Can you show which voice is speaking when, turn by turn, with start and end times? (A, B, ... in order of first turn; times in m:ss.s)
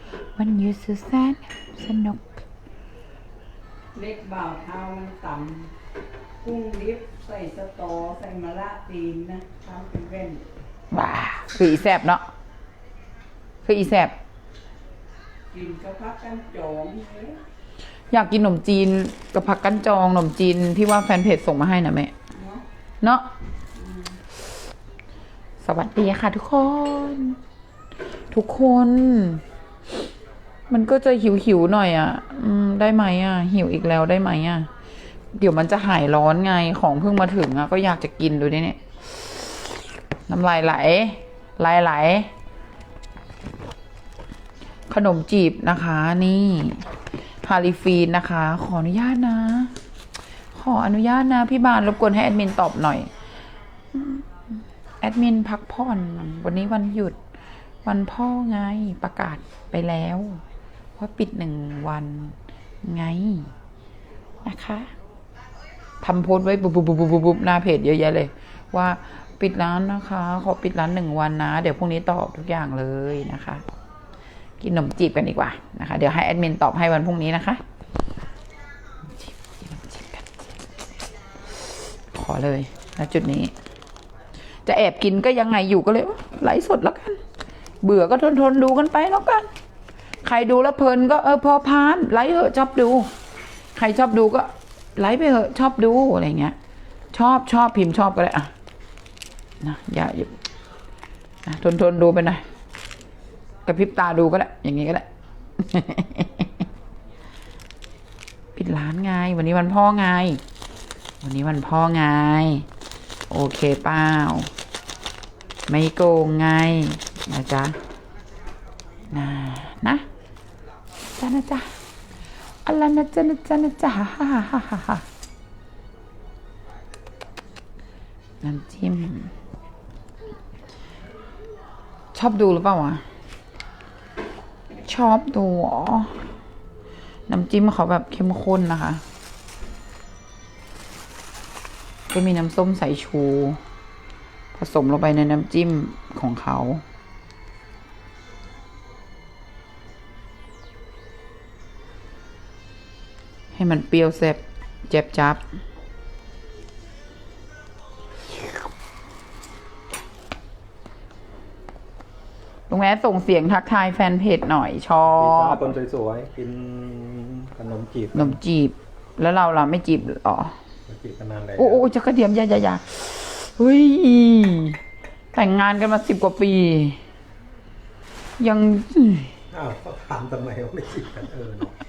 0:00.4-0:02.4 A
0:03.9-0:05.7 B
0:06.4-0:10.4 B
0:10.9-0:12.3 A
0:13.6-0:14.2 A
0:15.5-0:17.4 B
0:18.1-0:22.1 A
0:22.3-0:22.6 B
0:23.8-0:24.2 B
0:25.6-0:27.4 A
0:28.3-0:29.4 A
0:30.7-0:34.7 A
0:35.4-0:39.8 A
0:40.3-0:42.3 A
0:44.9-0:46.8 A
0:47.4-0:49.7 A
0:50.6-0:53.1 A
0:53.9-0:54.3 A
0:55.0-0:57.2 A
0:57.8-1:00.4 A
1:01.0-1:03.5 A
1:04.4-1:04.9 A
1:06.0-1:13.6 A
1:14.6-1:17.6 A
1:19.2-1:20.3 A
1:22.1-1:23.5 A
1:24.7-1:27.2 A
1:27.8-1:29.5 A
1:30.2-1:33.1 A
1:33.8-1:36.6 A
1:37.1-1:38.5 A
1:39.6-1:40.3 A
1:41.4-1:42.4 A
1:43.7-1:45.1 A
1:45.6-1:46.5 A
1:48.6-1:50.4 A
1:51.2-1:52.7 A
1:53.3-1:54.5 A
1:55.7-1:57.8 A
1:59.1-2:00.0 A
2:01.2-2:01.7 A
2:02.6-2:05.0 A
2:08.4-2:09.3 A
2:12.1-2:13.0 A
2:14.8-2:16.2 A
2:17.3-2:19.0 A
2:22.1-2:23.6 A
2:24.6-2:26.8 A
2:33.5-2:35.4 A
2:42.7-2:45.7 A
2:45.0-2:48.4 C
2:48.1-2:50.5 A
2:50.9-2:51.9 C
2:51.6-2:54.8 A
2:55.3-2:57.0 A
2:58.4-2:59.3 A
2:59.5-3:01.7 C